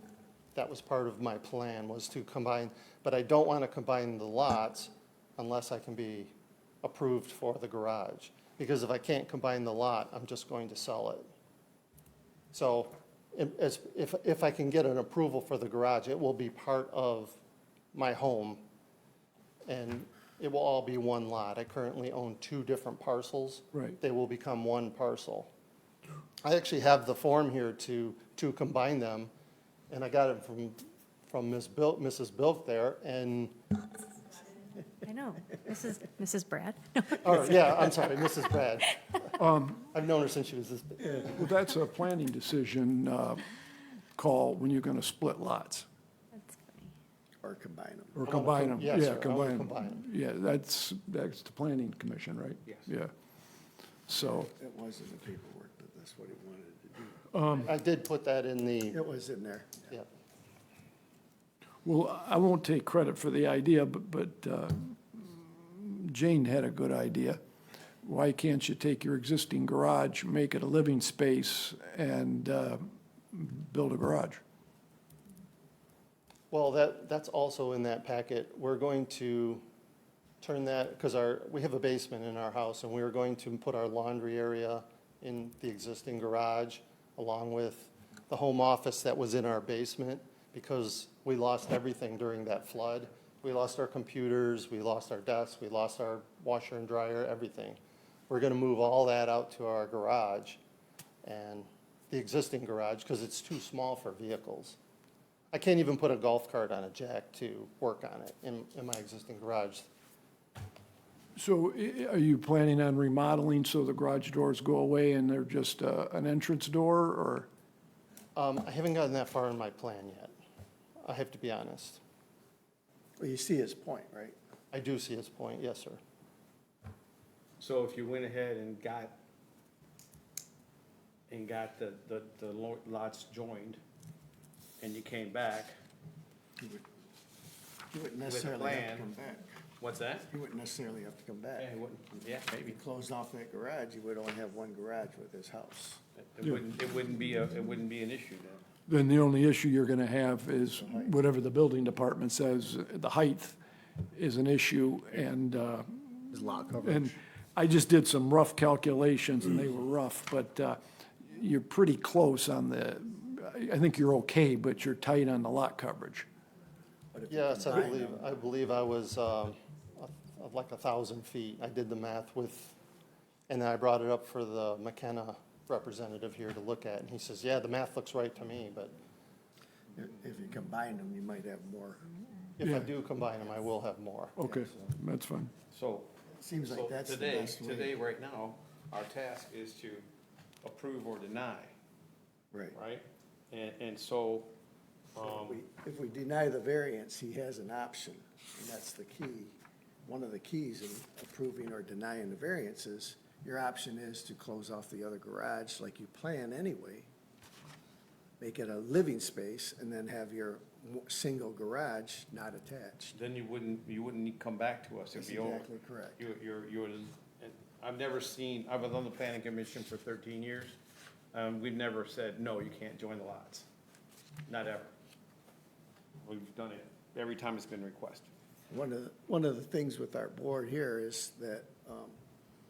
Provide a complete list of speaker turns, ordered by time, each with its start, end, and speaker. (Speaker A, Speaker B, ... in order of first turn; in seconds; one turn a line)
Speaker A: 0.5-11.3
Speaker A: 12.5-17.4
Speaker A: 17.9-18.6
Speaker A: 19.6-25.5
Speaker A: 26.4-29.3
Speaker A: 29.9-33.6
Speaker B: 35.0-37.4
Speaker A: 37.2-41.4
Speaker C: 39.4-39.9
Speaker C: 41.3-43.5
Speaker C: 44.1-45.9
Speaker B: 46.3-46.9
Speaker D: 47.4-48.3
Speaker C: 48.1-53.1
Speaker A: 48.2-50.0
Speaker C: 54.1-54.5
Speaker D: 54.5-57.2
Speaker C: 57.3-57.7
Speaker A: 57.6-59.0
Speaker D: 58.9-59.9
Speaker C: 61.8-67.4
Speaker C: 68.0-74.4
Speaker A: 76.5-79.6
Speaker A: 80.4-100.6
Speaker A: 101.2-104.8
Speaker A: 105.5-109.9
Speaker C: 111.3-117.5
Speaker A: 118.3-120.3
Speaker A: 121.0-122.0
Speaker D: 123.2-124.3
Speaker A: 124.7-126.0
Speaker E: 127.6-129.2
Speaker E: 131.3-133.8
Speaker E: 134.8-135.7
Speaker D: 136.6-136.8
Speaker D: 137.9-139.5
Speaker E: 138.2-139.1
Speaker E: 139.8-140.3
Speaker D: 140.3-141.7
Speaker E: 141.6-142.8
Speaker D: 142.6-146.0
Speaker E: 146.2-148.6
Speaker C: 148.9-153.6
Speaker D: 150.8-151.1
Speaker C: 154.1-166.3
Speaker D: 156.3-157.2
Speaker D: 167.1-168.2
Speaker A: 167.3-172.8
Speaker A: 173.5-178.9
Speaker D: 179.9-182.1
Speaker A: 182.6-184.4
Speaker C: 184.4-185.5
Speaker D: 184.4-184.8
Speaker E: 185.7-190.1
Speaker D: 186.3-188.0
Speaker E: 190.6-191.7
Speaker D: 192.5-192.8
Speaker E: 192.7-194.5
Speaker E: 195.1-195.6
Speaker D: 195.2-207.1
Speaker D: 208.4-213.2
Speaker E: 213.1-220.8
Speaker D: 215.2-216.2
Speaker E: 221.3-223.7
Speaker E: 224.5-224.9
Speaker E: 226.2-228.3
Speaker D: 228.7-232.2